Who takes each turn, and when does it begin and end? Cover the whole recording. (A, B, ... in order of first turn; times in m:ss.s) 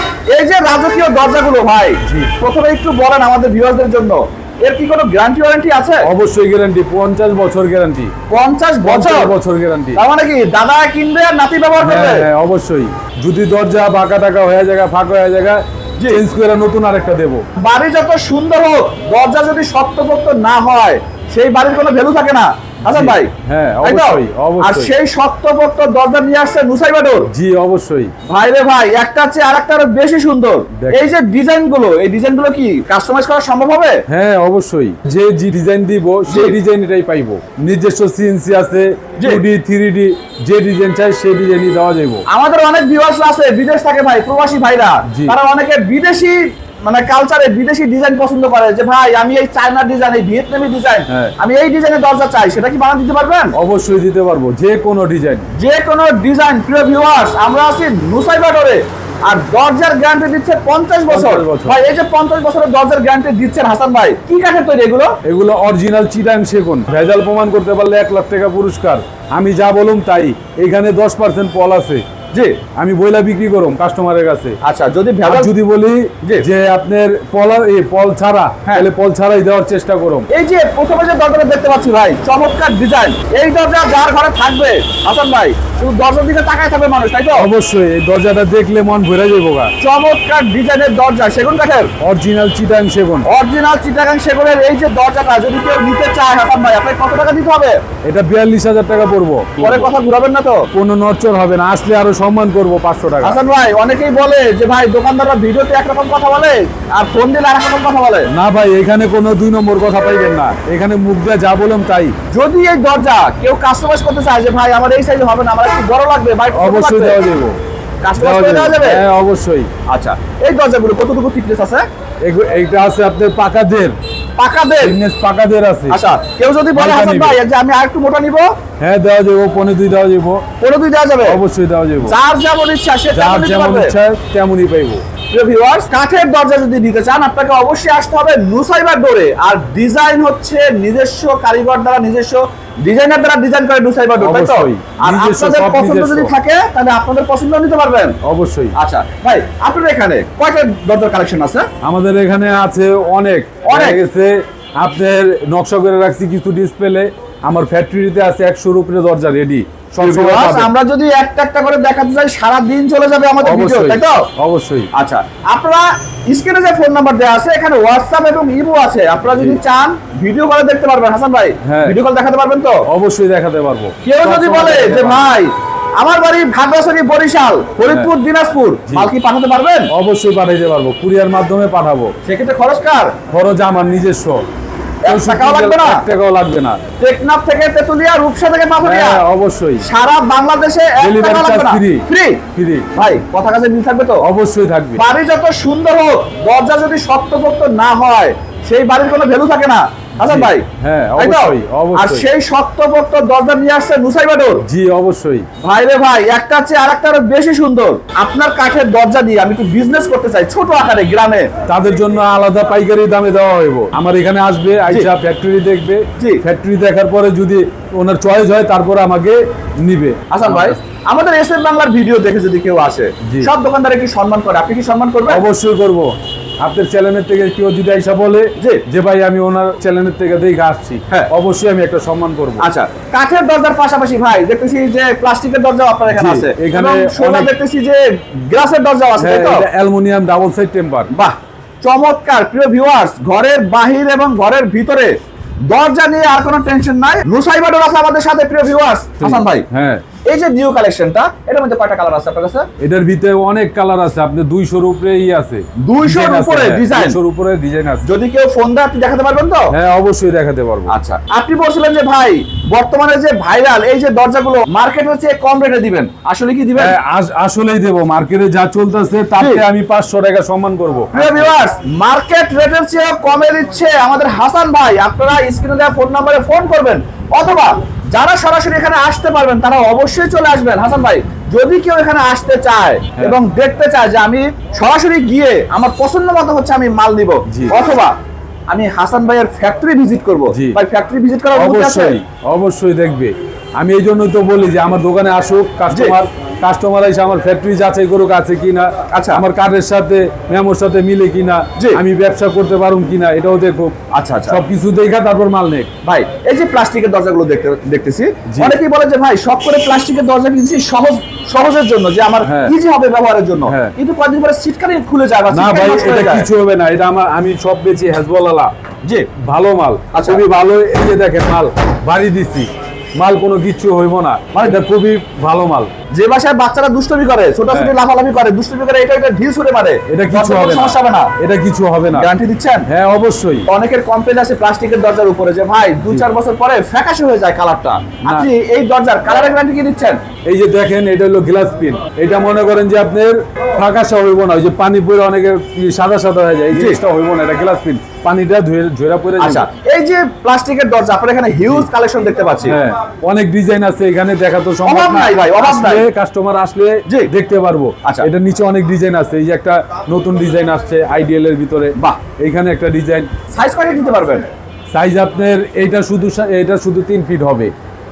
0:00.3-0:06.0 A
0:02.0-0:02.3 B
0:06.0-0:08.1 B
0:08.3-0:09.3 A
0:08.8-0:10.0 B
0:10.0-0:12.3 A
0:11.8-0:17.4 B
0:17.6-0:23.3 A
0:22.8-0:24.9 B
0:23.8-0:27.3 A
0:27.3-0:28.1 B
0:28.3-0:34.0 A
0:30.8-0:31.0 B
0:34.1-0:42.2 B
0:36.3-0:36.6 A
0:42.3-0:53.6 A
0:53.6-0:55.5 B
0:55.6-1:05.2 A
1:01.1-1:01.8 B
1:05.2-1:12.0 B
1:12.3-1:12.6 A
1:12.8-1:14.6 B
1:14.6-1:15.5 A
1:15.2-1:20.3 B
1:20.3-1:27.5 A
1:27.4-1:29.7 B
1:29.8-1:31.9 A
1:32.0-1:33.3 B
1:33.3-1:37.8 A
1:38.0-1:39.9 B
1:39.6-1:40.7 A
1:40.7-1:43.4 B
1:43.2-1:48.3 A
1:48.3-1:52.1 B
1:52.3-1:57.2 A
1:56.5-1:57.6 B
1:58.0-1:59.0 A
1:58.2-1:59.7 B
1:59.9-2:01.8 A
2:02.2-2:04.0 B
2:04.4-2:05.0 A
2:04.8-2:06.0 B
2:05.9-2:08.5 A
2:06.7-2:07.4 B
2:08.8-2:10.4 B
2:10.6-2:11.4 A
2:11.2-2:12.2 B
2:12.0-2:13.9 A
2:13.1-2:15.0 B
2:15.3-2:28.2 A
2:24.2-2:26.3 B
2:28.2-2:28.8 B
2:28.8-2:31.7 A
2:31.8-2:40.7 B
2:33.6-2:34.0 A
2:40.0-2:44.3 A
2:43.4-2:44.9 B
2:44.9-2:52.8 A
2:49.2-2:49.6 B
2:51.6-2:52.0 B
2:52.9-2:55.2 B
2:54.0-2:59.9 A
2:58.9-2:59.1 B
2:59.9-3:02.1 B
3:02.2-3:03.2 A
3:03.3-3:04.4 B
3:05.0-3:06.0 A
3:05.1-3:06.8 B
3:07.0-3:09.2 A
3:08.8-3:09.9 B
3:09.8-3:12.4 A
3:11.0-3:12.9 B
3:12.9-3:14.2 A
3:14.2-3:15.0 B
3:15.0-3:20.6 A
3:20.2-3:22.2 B
3:21.2-3:24.6 A
3:24.6-3:25.4 B
3:25.6-3:31.5 A
3:31.7-3:40.8 B
3:36.2-3:36.4 A
3:40.3-3:45.4 A
3:43.2-3:43.5 B
3:45.3-3:52.7 B
3:48.6-3:48.8 A
3:52.6-3:59.6 A
3:56.1-3:57.5 B
3:59.2-4:01.1 B
4:01.1-4:05.2 A
4:05.7-4:09.6 A
4:09.2-4:10.0 B
4:10.3-4:12.7 A
4:12.8-4:18.1 B
4:15.8-4:17.2 A
4:18.0-4:19.7 A
4:19.7-4:20.9 B
4:20.9-4:26.9 A
4:26.8-4:31.5 B
4:29.4-4:29.6 A
4:31.1-4:48.1 A
4:47.5-4:47.8 B
4:48.7-4:52.2 A
4:50.5-4:50.8 B
4:51.5-5:03.9 B
4:55.9-4:56.2 A
4:59.1-4:59.4 A
5:04.1-5:04.6 A
5:04.5-5:05.9 B
5:06.0-5:16.5 A
5:08.5-5:08.8 B
5:12.4-5:12.7 B
5:13.7-5:13.9 B
5:15.5-5:18.7 B
5:19.0-5:19.3 A
5:19.4-5:25.9 B
5:20.1-5:20.4 A
5:24.5-5:24.8 A
5:26.1-5:31.3 A
5:30.1-5:32.3 B
5:32.1-5:32.9 A
5:32.9-5:33.7 B
5:33.7-5:40.2 A
5:40.4-5:49.7 B
5:46.7-5:47.0 A
5:49.4-5:52.8 A
5:52.6-6:03.3 B
5:54.8-5:56.1 A
5:58.0-5:58.3 A
6:02.0-6:02.2 A
6:03.5-6:04.4 A
6:04.9-6:07.7 B